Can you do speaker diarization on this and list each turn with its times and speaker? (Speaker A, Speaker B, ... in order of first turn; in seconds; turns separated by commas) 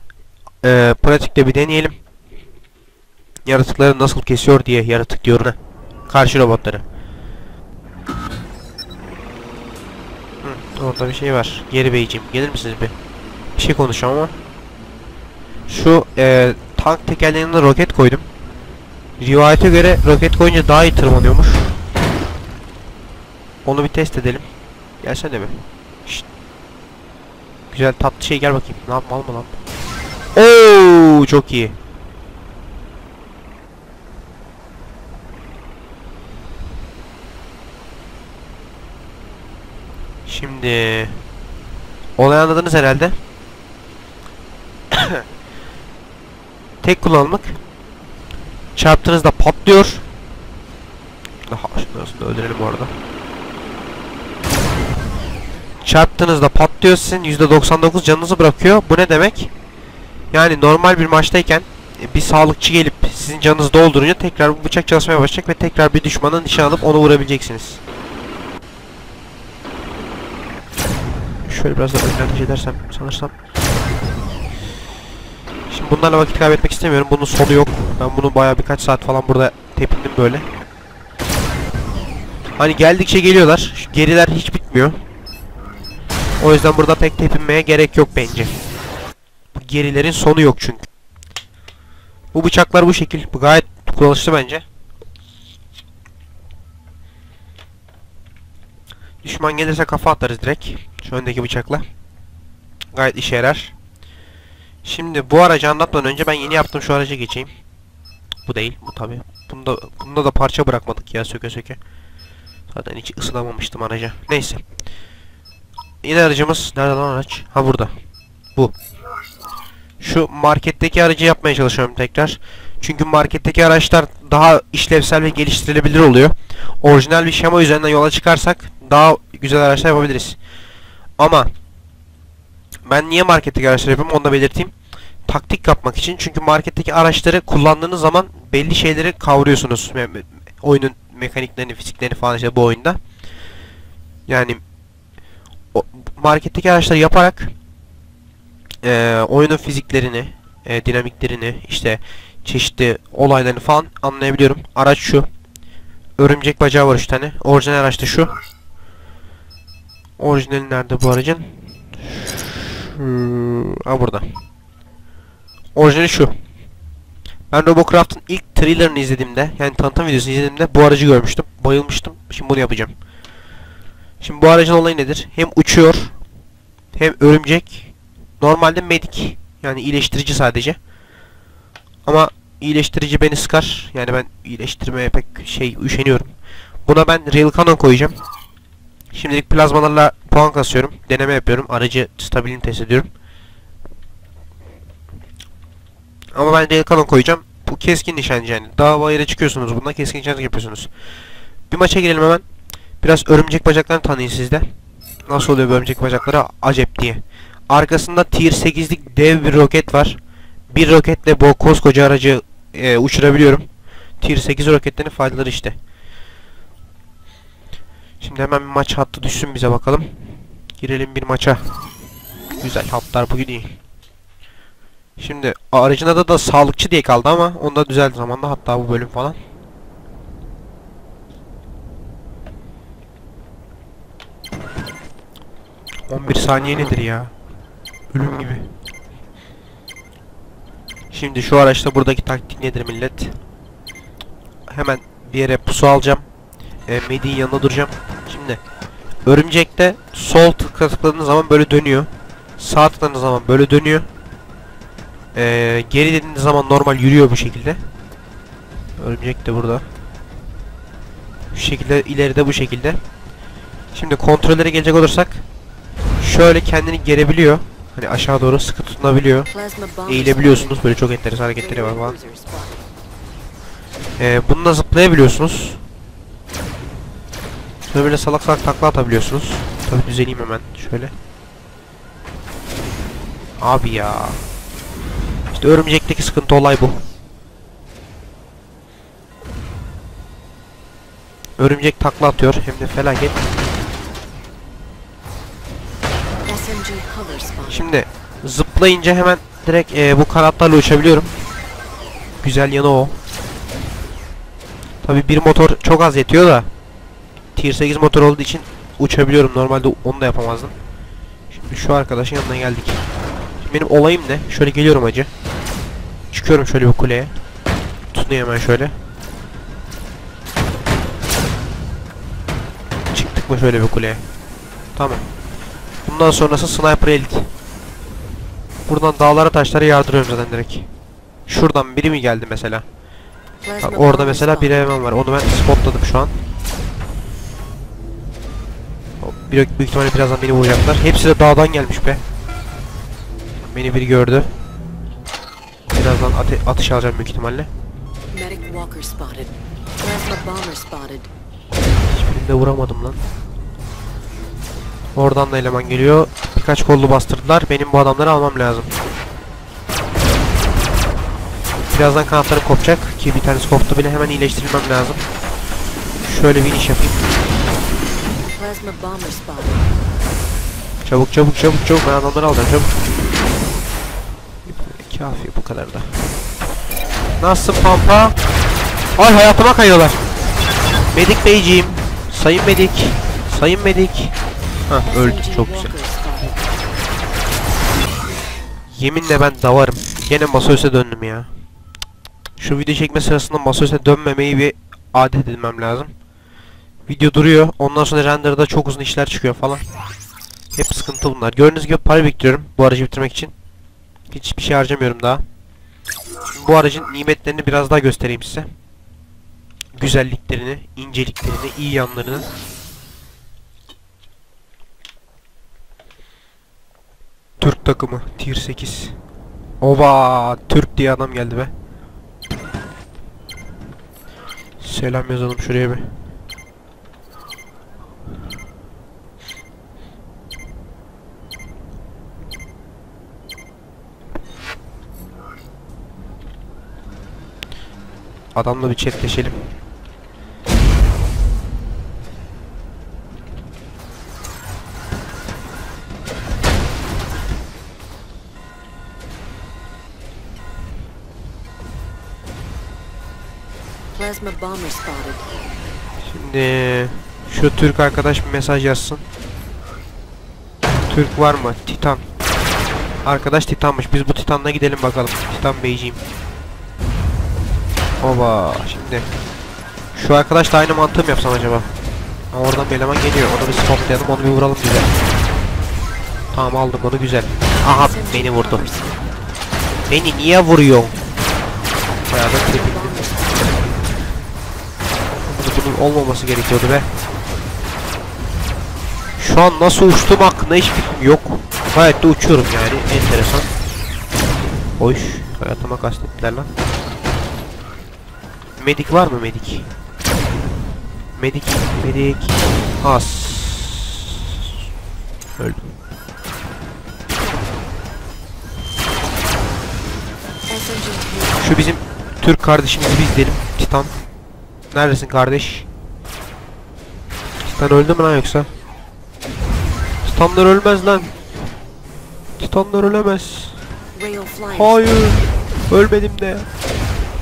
Speaker A: 0.6-2.0, Speaker A: 3.5-5.6, Speaker A: 6.1-6.8, Speaker A: 10.4-12.9, Speaker A: 13.6-14.3, Speaker A: 15.7-18.3, Speaker A: 19.2-21.7, Speaker A: 23.6-24.5, Speaker A: 25.0-26.2, Speaker A: 27.7-29.6, Speaker A: 30.4-31.8, Speaker A: 40.3-41.2, Speaker A: 42.2-43.2, Speaker A: 44.9-45.2, Speaker A: 46.8-47.6, Speaker A: 48.8-50.0, Speaker A: 51.5-52.9, Speaker A: 55.8-59.5, Speaker A: 60.3-67.8, Speaker A: 71.5-73.3, Speaker A: 75.7-80.5, Speaker A: 82.6-85.0, Speaker A: 86.4-88.5, Speaker A: 89.5-90.9, Speaker A: 92.3-94.6, Speaker A: 99.2-101.9, Speaker A: 102.9-103.7, Speaker A: 104.8-107.5, Speaker A: 108.5-111.8, Speaker A: 112.7-114.6, Speaker A: 116.0-117.9, Speaker A: 120.0-130.4, Speaker A: 131.2-131.5, Speaker A: 132.9-134.7, Speaker A: 135.3-143.0, Speaker A: 144.3-144.6, Speaker A: 145.7-147.5, Speaker A: 148.8-155.3, Speaker A: 156.2-158.3, Speaker A: 160.2-164.3, Speaker A: 165.8-166.3, Speaker A: 167.5-172.9, Speaker A: 174.2-176.1, Speaker A: 176.9-180.8, Speaker A: 182.1-186.3, Speaker A: 186.9-188.2, Speaker A: 189.1-193.1, Speaker A: 196.3-200.9, Speaker A: 201.7-202.4, Speaker A: 203.0-204.7, Speaker A: 205.3-210.2, Speaker A: 210.7-213.7, Speaker A: 214.2-215.8, Speaker A: 218.2-220.2, Speaker A: 220.8-221.7, Speaker A: 222.6-223.8, Speaker A: 225.2-229.4, Speaker A: 236.1-237.3, Speaker A: 238.1-238.8, Speaker A: 241.1-243.4, Speaker A: 244.7-246.2, Speaker A: 246.9-248.6, Speaker A: 249.3-254.1, Speaker A: 255.3-257.8, Speaker A: 259.0-259.9, Speaker A: 261.5-263.0, Speaker A: 263.9-265.4, Speaker A: 266.2-269.5, Speaker B: 269.5-270.9, Speaker A: 270.1-272.2, Speaker B: 271.6-272.9, Speaker A: 274.2-275.8, Speaker A: 277.9-281.1, Speaker A: 283.6-284.5, Speaker A: 285.5-287.0, Speaker A: 291.6-293.4, Speaker B: 296.4-297.9, Speaker A: 297.7-301.3, Speaker A: 302.4-303.2, Speaker A: 305.0-306.7, Speaker A: 307.6-310.7, Speaker A: 311.5-313.0, Speaker A: 313.6-315.3, Speaker A: 316.3-317.3, Speaker A: 318.1-318.9, Speaker A: 323.1-324.3, Speaker A: 325.0-325.3, Speaker A: 326.1-327.5, Speaker A: 328.9-330.9, Speaker A: 331.5-332.9, Speaker B: 333.6-334.9, Speaker A: 333.8-336.4, Speaker A: 339.2-342.2, Speaker A: 343.6-344.5, Speaker A: 345.9-347.7, Speaker B: 348.3-351.3, Speaker A: 352.1-353.2, Speaker A: 355.2-358.9, Speaker A: 361.9-365.3, Speaker A: 366.2-367.2, Speaker B: 368.4-370.0, Speaker A: 371.1-373.0, Speaker A: 374.7-376.2, Speaker A: 377.4-378.4, Speaker A: 379.2-380.2, Speaker A: 381.1-384.3, Speaker A: 384.9-385.9, Speaker B: 385.1-386.8, Speaker A: 388.9-391.5, Speaker A: 392.6-396.1, Speaker A: 397.1-399.9, Speaker A: 400.8-403.5, Speaker A: 404.3-405.4, Speaker A: 406.5-408.7, Speaker A: 409.9-412.5, Speaker A: 417.6-419.2, Speaker A: 419.8-421.7, Speaker A: 424.8-426.1, Speaker A: 438.6-439.7, Speaker B: 454.1-455.5, Speaker A: 456.2-459.2, Speaker A: 461.1-462.2, Speaker A: 463.2-466.2, Speaker A: 468.2-469.3, Speaker A: 470.1-471.9, Speaker A: 472.5-475.1, Speaker B: 473.4-474.7, Speaker A: 476.5-478.9, Speaker B: 477.8-479.2, Speaker A: 480.1-481.2, Speaker A: 482.3-483.3, Speaker B: 482.4-483.8, Speaker A: 485.4-487.1, Speaker A: 489.4-493.7, Speaker A: 495.0-496.7, Speaker A: 498.8-499.9, Speaker A: 501.4-504.4, Speaker A: 505.6-506.0, Speaker B: 510.7-511.8, Speaker A: 511.6-514.2, Speaker A: 514.9-515.9, Speaker A: 517.6-518.7, Speaker A: 520.2-521.3, Speaker A: 522.6-523.8, Speaker B: 524.1-525.0, Speaker A: 524.7-526.7